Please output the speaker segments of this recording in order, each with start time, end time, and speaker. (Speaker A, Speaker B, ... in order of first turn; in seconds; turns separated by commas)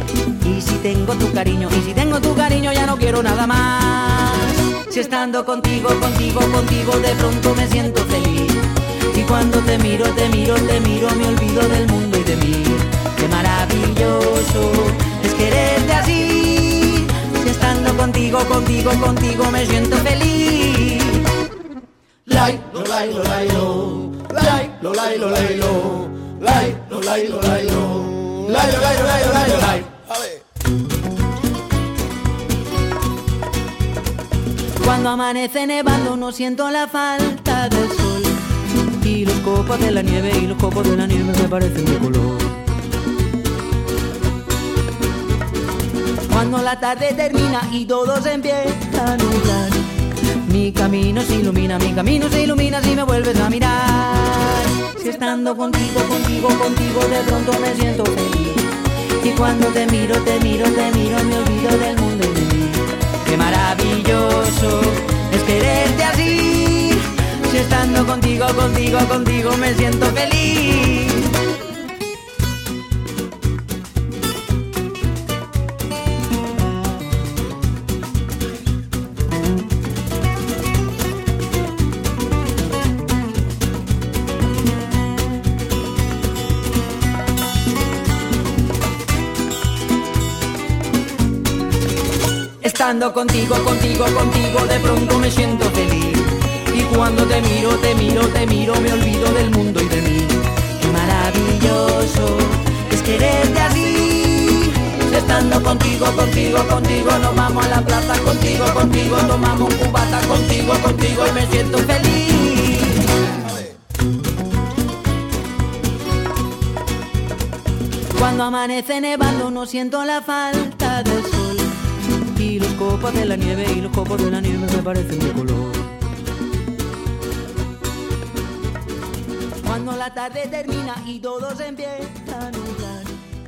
Speaker A: 0.4-21.2, Speaker A: 22.3-29.9, Speaker A: 34.8-38.4, Speaker A: 39.0-42.5, Speaker A: 46.3-49.8, Speaker A: 50.5-58.7, Speaker A: 59.2-71.3, Speaker A: 92.6-113.1, Speaker A: 118.2-121.7, Speaker A: 122.3-125.9, Speaker A: 129.6-133.2